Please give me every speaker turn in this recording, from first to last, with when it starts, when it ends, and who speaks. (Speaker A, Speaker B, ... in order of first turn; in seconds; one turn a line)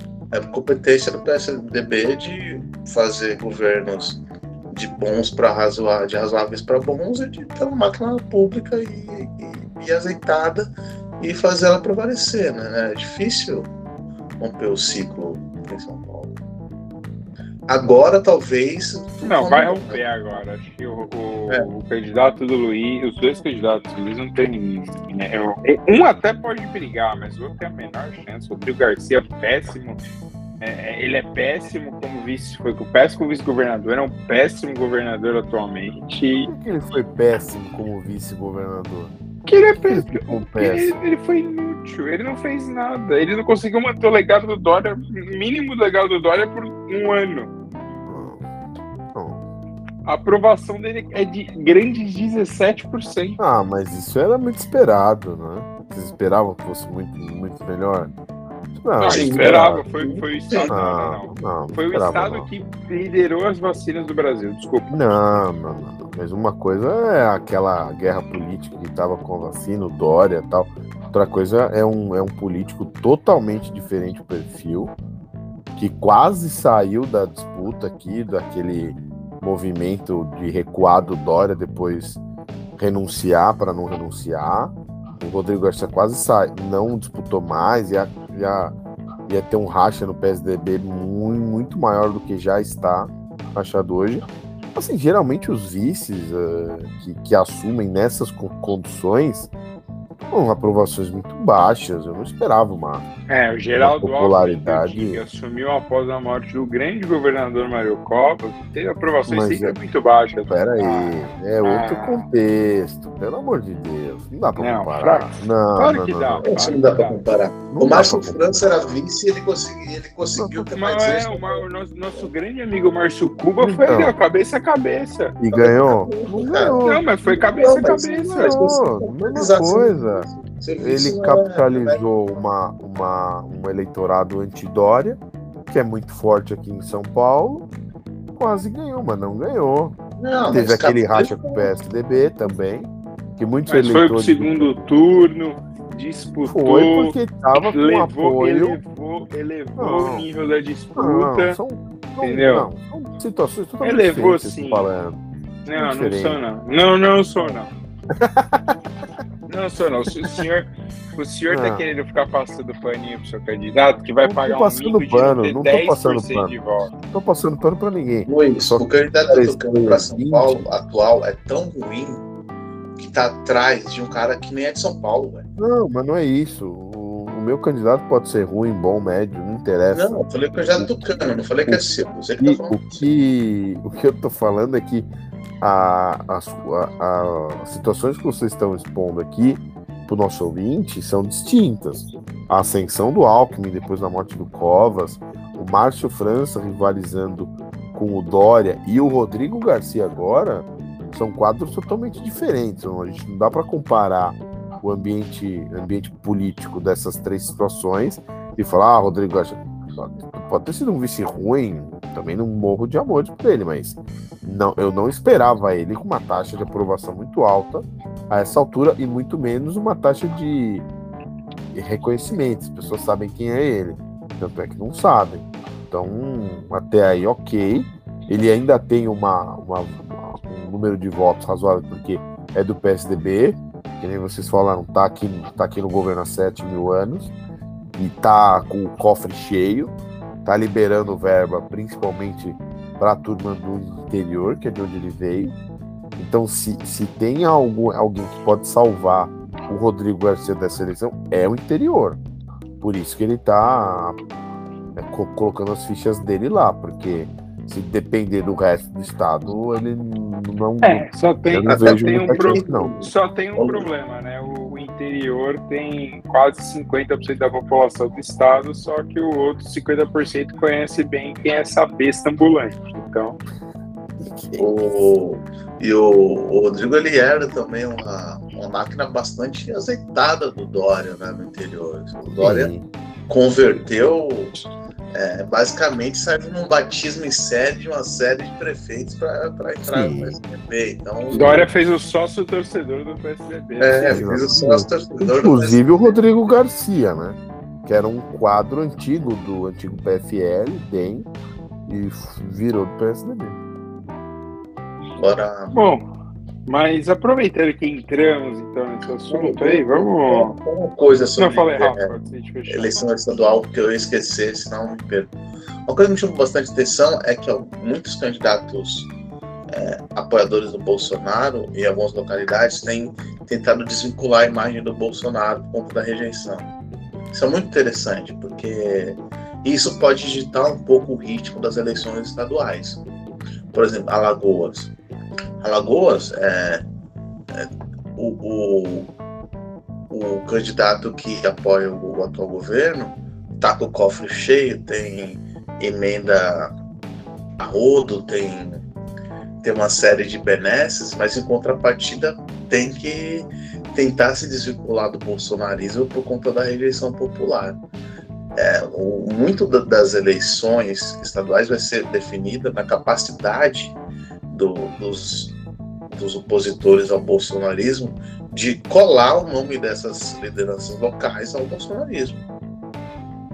Speaker A: 0.3-13.7
Speaker A: 14.4-16.4
Speaker A: 17.7-20.0
Speaker B: 19.2-30.0
Speaker B: 30.6-36.5
Speaker C: 36.5-39.1
Speaker B: 39.5-47.5
Speaker C: 39.9-41.0
Speaker C: 48.1-48.5
Speaker C: 49.1-49.4
Speaker B: 50.0-53.4
Speaker C: 53.4-58.1
Speaker C: 58.8-59.8
Speaker B: 59.0-65.0
Speaker A: 59.0-60.8
Speaker C: 60.7-62.5
Speaker C: 64.9-74.9
Speaker C: 75.8-82.2
Speaker C: 82.8-88.7
Speaker C: 89.3-99.5
Speaker C: 100.2-103.0
Speaker B: 103.3-112.2
Speaker C: 103.8-105.2
Speaker C: 109.2-109.7
Speaker C: 110.5-116.4
Speaker B: 114.6-117.2
Speaker A: 116.5-121.7
Speaker C: 117.7-118.4
Speaker B: 120.7-125.3
Speaker C: 123.6-124.1
Speaker C: 125.4-127.0
Speaker A: 125.5-132.0
Speaker B: 126.8-128.5
Speaker C: 128.1-130.2
Speaker C: 130.8-137.7
Speaker C: 138.3-140.0
Speaker A: 140.2-141.7
Speaker C: 140.5-144.9
Speaker B: 143.7-151.6
Speaker C: 146.4-148.8
Speaker C: 149.8-150.3
Speaker C: 150.9-155.2
Speaker B: 152.2-152.7
Speaker B: 153.8-154.8
Speaker B: 155.7-157.7
Speaker C: 155.7-156.4
Speaker C: 158.2-158.7
Speaker B: 159.5-166.9
Speaker C: 161.5-161.8
Speaker C: 164.2-170.7
Speaker A: 168.3-172.2
Speaker A: 173.0-175.4
Speaker C: 175.6-180.2
Speaker A: 179.9-183.1
Speaker C: 180.7-181.8
Speaker C: 182.4-185.1
Speaker C: 185.6-220.8
Speaker C: 221.7-237.3
Speaker C: 237.9-239.9
Speaker C: 240.4-245.5
Speaker C: 246.2-252.2
Speaker C: 252.8-254.2
Speaker C: 254.9-263.0
Speaker B: 260.8-273.4
Speaker A: 261.7-263.9
Speaker C: 274.2-274.6
Speaker A: 274.5-282.7
Speaker C: 282.4-282.9
Speaker A: 283.3-284.6
Speaker A: 285.1-291.7
Speaker C: 289.8-290.4
Speaker B: 291.3-294.3
Speaker A: 293.8-296.1
Speaker C: 294.1-301.3
Speaker C: 301.9-303.6
Speaker A: 305.1-305.9
Speaker B: 305.7-306.1
Speaker B: 306.7-310.5
Speaker A: 309.3-312.2
Speaker B: 311.4-313.1
Speaker A: 312.7-315.3
Speaker A: 315.9-319.1
Speaker A: 319.7-326.7
Speaker A: 327.3-333.0
Speaker A: 333.7-334.9
Speaker A: 335.6-336.8
Speaker A: 337.5-339.1
Speaker A: 340.1-346.7
Speaker A: 347.6-348.8
Speaker A: 349.6-357.8
Speaker A: 358.5-365.6
Speaker A: 366.1-372.4